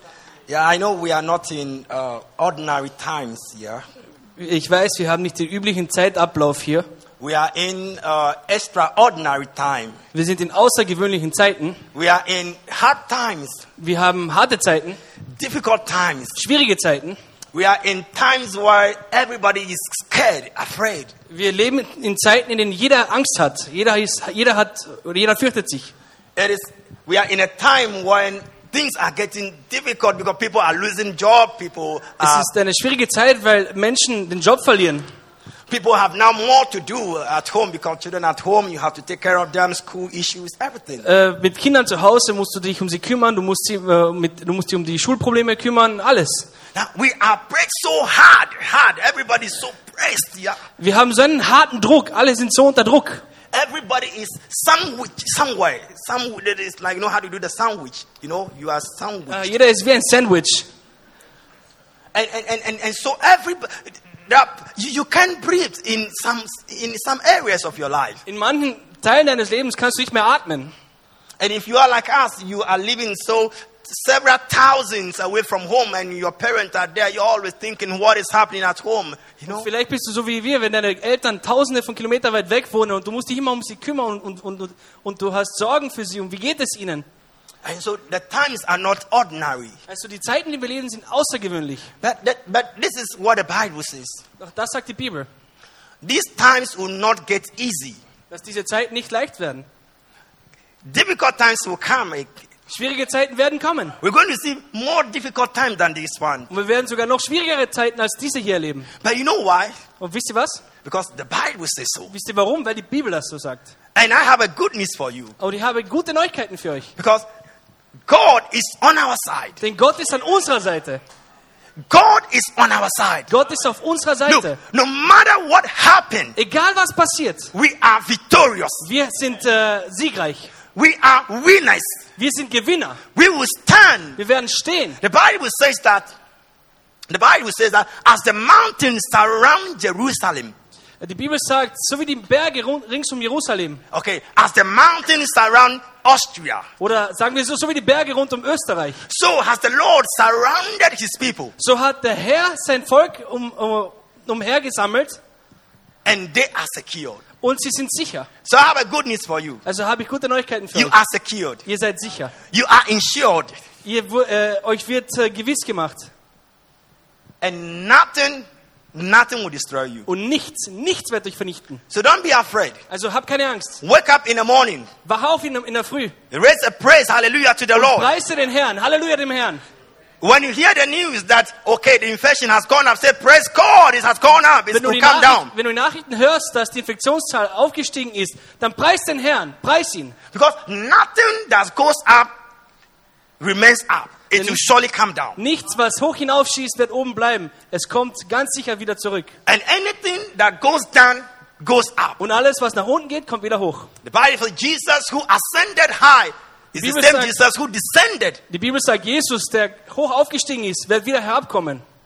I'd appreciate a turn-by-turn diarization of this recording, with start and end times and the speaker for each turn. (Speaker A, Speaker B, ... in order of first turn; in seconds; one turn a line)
Speaker A: 0.5-3.8
Speaker B: 4.4-6.8
Speaker A: 7.2-10.0
Speaker B: 10.1-11.8
Speaker A: 11.9-13.7
Speaker B: 13.8-15.0
Speaker A: 15.3-16.4
Speaker B: 16.4-17.2
Speaker A: 17.5-21.1
Speaker B: 21.3-25.9
Speaker A: 26.4-32.5
Speaker B: 32.2-35.0
Speaker A: 35.7-41.1
Speaker B: 41.0-46.5
Speaker A: 46.7-50.6
Speaker B: 50.8-53.2
Speaker A: 53.5-59.5
Speaker B: 59.3-60.7
Speaker A: 62.1-68.2
Speaker B: 68.2-70.7
Speaker A: 71.4-79.7
Speaker B: 79.5-87.0
Speaker A: 87.6-89.8
Speaker B: 89.9-91.9
Speaker A: 92.0-94.2
Speaker B: 94.4-95.3
Speaker A: 96.0-98.0
Speaker B: 98.3-99.7
Speaker A: 100.8-102.3
Speaker B: 102.7-104.0
Speaker A: 104.0-106.5
Speaker B: 106.5-108.9
Speaker A: 109.0-109.8
Speaker B: 110.0-110.6
Speaker A: 110.8-112.1
Speaker B: 112.1-113.7
Speaker A: 113.9-115.4
Speaker B: 115.4-116.9
Speaker A: 117.0-117.2
Speaker A: 118.1-119.6
Speaker B: 119.6-121.0
Speaker A: 121.9-123.3
Speaker B: 123.3-124.6
Speaker A: 124.3-126.3
Speaker B: 126.3-127.5
Speaker A: 127.5-128.8
Speaker B: 128.8-130.5
Speaker A: 130.7-132.0
Speaker B: 132.2-133.0
Speaker A: 133.1-134.2
Speaker B: 134.2-135.0
Speaker A: 135.0-136.1
Speaker A: 137.1-140.5
Speaker B: 141.0-143.8
Speaker A: 143.9-146.7
Speaker B: 146.8-149.0
Speaker A: 149.0-151.5
Speaker B: 151.6-155.2
Speaker A: 156.0-157.2
Speaker B: 157.4-158.3
Speaker A: 158.4-159.6
Speaker B: 159.6-160.9
Speaker A: 160.7-161.6
Speaker B: 161.6-162.3
Speaker A: 162.5-163.6
Speaker B: 163.8-166.1
Speaker A: 167.4-170.1
Speaker B: 170.1-171.8
Speaker A: 171.9-172.8
Speaker B: 172.9-173.8
Speaker A: 173.8-174.9
Speaker B: 175.0-176.1
Speaker A: 176.3-178.1
Speaker B: 177.7-179.6
Speaker A: 180.2-185.5
Speaker B: 184.7-190.2
Speaker A: 190.3-192.3
Speaker A: 193.4-195.4
Speaker B: 194.3-194.6
Speaker B: 195.4-199.3
Speaker A: 199.4-202.2
Speaker B: 202.2-203.9
Speaker A: 204.0-208.4
Speaker B: 206.8-207.3
Speaker B: 208.5-211.8